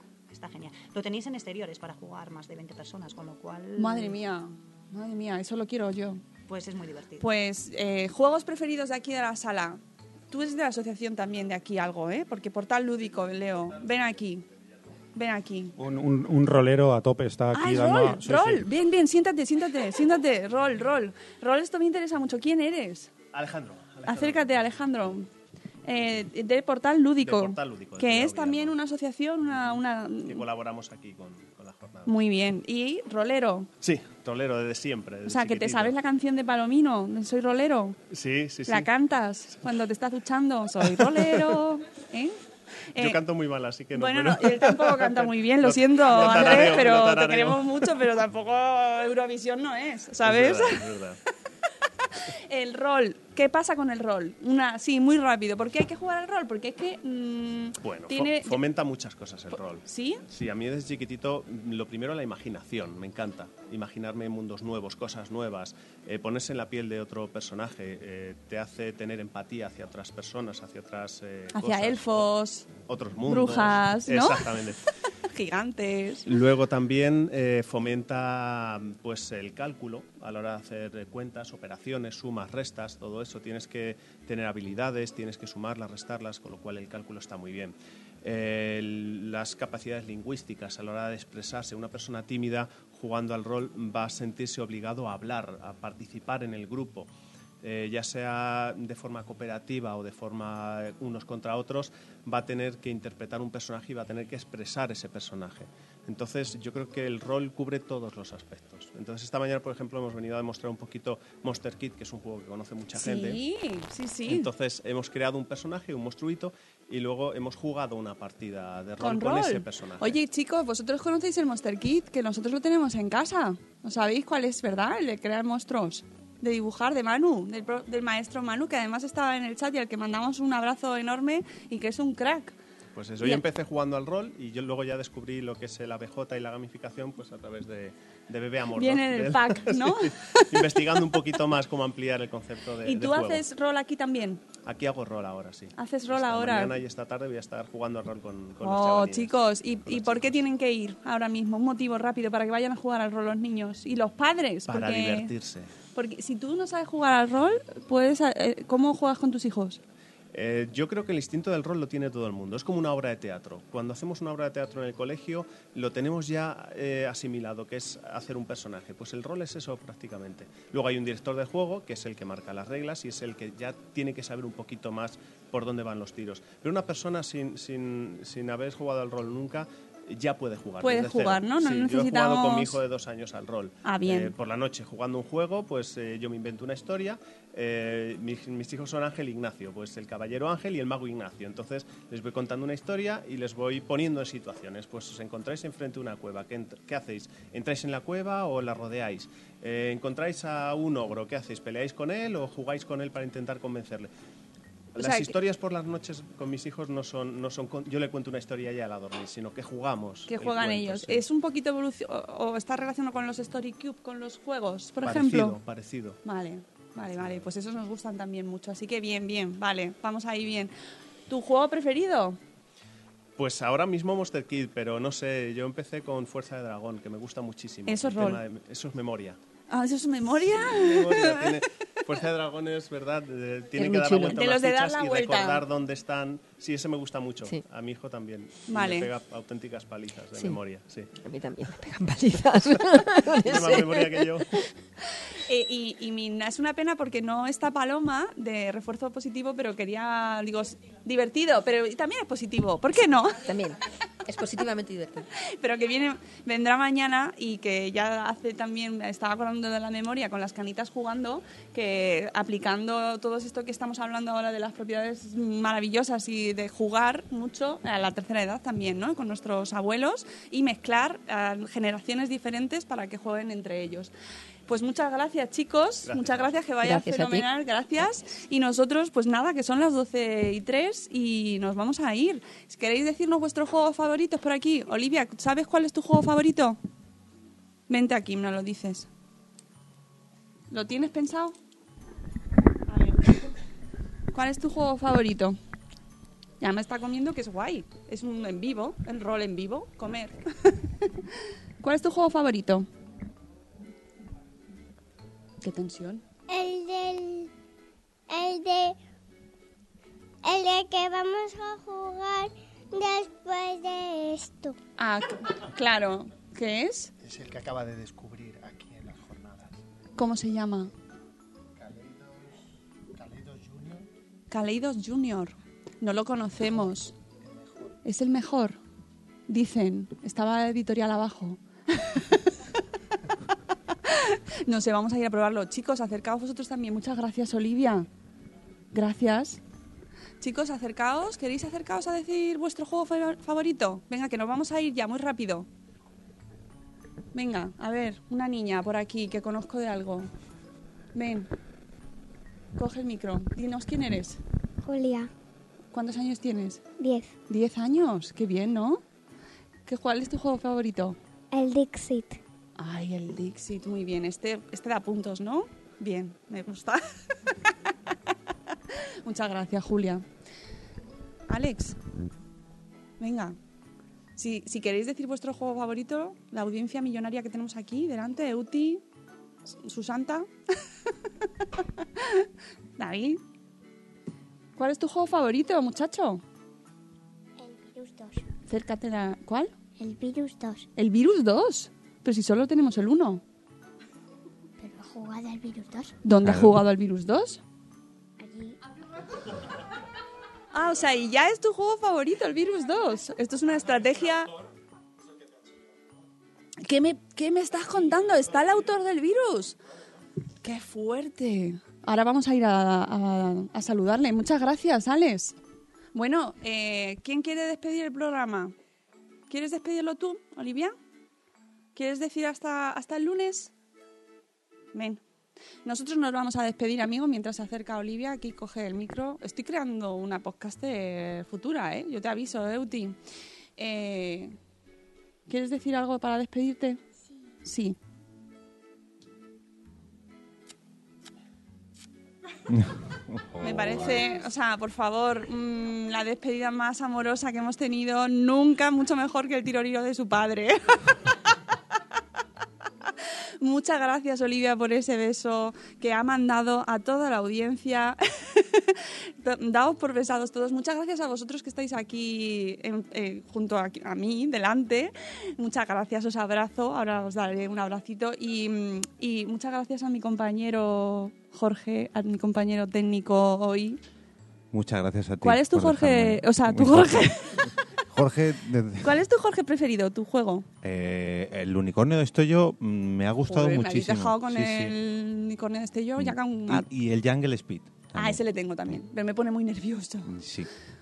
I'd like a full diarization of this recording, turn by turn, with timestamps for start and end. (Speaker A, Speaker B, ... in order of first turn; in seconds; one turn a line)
Speaker A: 0.3-4.1
Speaker B: 3.8-6.2
Speaker A: 6.5-7.2
Speaker B: 7.2-14.4
Speaker B: 15.1-15.7
Speaker C: 15.8-18.7
Speaker B: 17.5-23.1
Speaker D: 23.3-24.6
Speaker B: 24.0-25.3
Speaker B: 25.8-30.4
Speaker D: 27.2-28.8
Speaker D: 30.2-32.1
Speaker B: 32.0-33.7
Speaker D: 33.8-36.0
Speaker B: 35.2-38.0
Speaker D: 38.1-38.9
Speaker B: 38.6-42.3
Speaker D: 40.8-41.5
Speaker B: 42.9-43.2
Speaker D: 43.0-48.0
Speaker B: 43.9-51.0
Speaker D: 50.2-51.2
Speaker B: 52.1-58.6
Speaker D: 57.8-74.8
Speaker B: 59.5-60.2
Speaker B: 71.5-72.7
Speaker B: 73.2-74.6
Speaker B: 75.2-76.3
Speaker D: 76.2-97.1
Speaker D: 97.6-113.4
Speaker B: 112.9-114.5
Speaker D: 114.2-120.2
Speaker B: 119.0-132.5
Speaker D: 132.9-143.4
Speaker B: 133.2-133.4
Speaker B: 138.8-141.3
Speaker B: 142.8-144.4
Speaker D: 144.6-150.4
Speaker B: 145.8-146.8
Speaker B: 148.6-155.3
Speaker D: 154.7-155.7
Speaker B: 155.9-159.8
Speaker D: 160.3-204.1
Speaker B: 180.8-182.8
Speaker B: 183.8-184.3
Speaker D: 204.9-211.2
Speaker B: 204.9-205.3
Speaker B: 210.3-215.6
Speaker D: 215.0-216.2
Speaker B: 216.2-220.7
Speaker D: 217.2-217.4
Speaker B: 221.3-222.4
Speaker D: 223.4-229.4
Speaker B: 227.9-228.4
Speaker B: 229.7-231.6
Speaker D: 230.5-241.1
Speaker E: 233.7-234.4
Speaker B: 234.0-235.6
Speaker B: 238.7-239.1
Speaker E: 241.2-244.6
Speaker D: 243.4-244.5
Speaker B: 245.4-253.4
Speaker E: 253.4-255.2
Speaker B: 255.6-274.1
Speaker B: 274.7-286.8
Speaker D: 276.0-276.6
Speaker E: 276.8-277.5
Speaker B: 287.9-289.1
Speaker B: 290.7-291.5
Speaker B: 294.3-295.6
Speaker B: 296.6-301.2
Speaker B: 301.8-302.9
Speaker B: 305.6-306.2
Speaker F: 306.5-307.5
Speaker F: 308.3-309.0
Speaker F: 310.4-314.8
Speaker B: 315.0-317.1
Speaker G: 317.2-319.8
Speaker B: 320.2-320.9
Speaker G: 321.7-322.5
Speaker G: 323.1-324.1
Speaker B: 324.5-327.1
Speaker G: 326.6-328.0
Speaker B: 328.0-328.8
Speaker B: 329.5-332.7
Speaker B: 334.0-338.1
Speaker B: 338.9-339.6
Speaker B: 340.4-345.7
Speaker B: 347.3-350.3
Speaker B: 351.1-351.5
Speaker B: 352.8-354.4
Speaker F: 354.8-355.3
Speaker B: 355.9-356.8
Speaker F: 357.0-357.3
Speaker B: 357.5-359.0
Speaker B: 359.9-361.2
Speaker F: 361.5-362.4
Speaker B: 362.8-367.7
Speaker B: 369.2-370.2
Speaker B: 371.5-372.0
Speaker B: 373.2-373.6
Speaker B: 374.4-379.0
Speaker B: 379.7-380.5
Speaker B: 382.0-382.5
Speaker B: 383.0-383.4
Speaker B: 384.8-386.4
Speaker F: 387.6-388.4
Speaker B: 388.7-389.7
Speaker F: 390.0-390.9
Speaker B: 390.9-393.4
Speaker F: 394.8-396.1
Speaker B: 396.2-397.6
Speaker H: 396.4-396.7
Speaker F: 398.4-398.8
Speaker B: 400.7-404.5
Speaker B: 406.8-409.8
Speaker B: 410.6-415.6
Speaker B: 416.1-418.7
Speaker B: 419.5-420.9
Speaker B: 421.9-423.7
Speaker B: 424.9-425.2
Speaker B: 425.8-433.2
Speaker B: 433.8-434.5
Speaker B: 435.5-437.0
Speaker B: 437.6-438.0
Speaker H: 442.7-444.2
Speaker B: 443.6-451.3
Speaker B: 453.6-474.0
Speaker H: 474.7-479.2
Speaker B: 475.4-477.7
Speaker B: 479.0-480.6
Speaker H: 480.8-484.9
Speaker B: 483.5-486.9
Speaker H: 486.2-488.4
Speaker B: 488.1-490.3
Speaker H: 490.2-490.7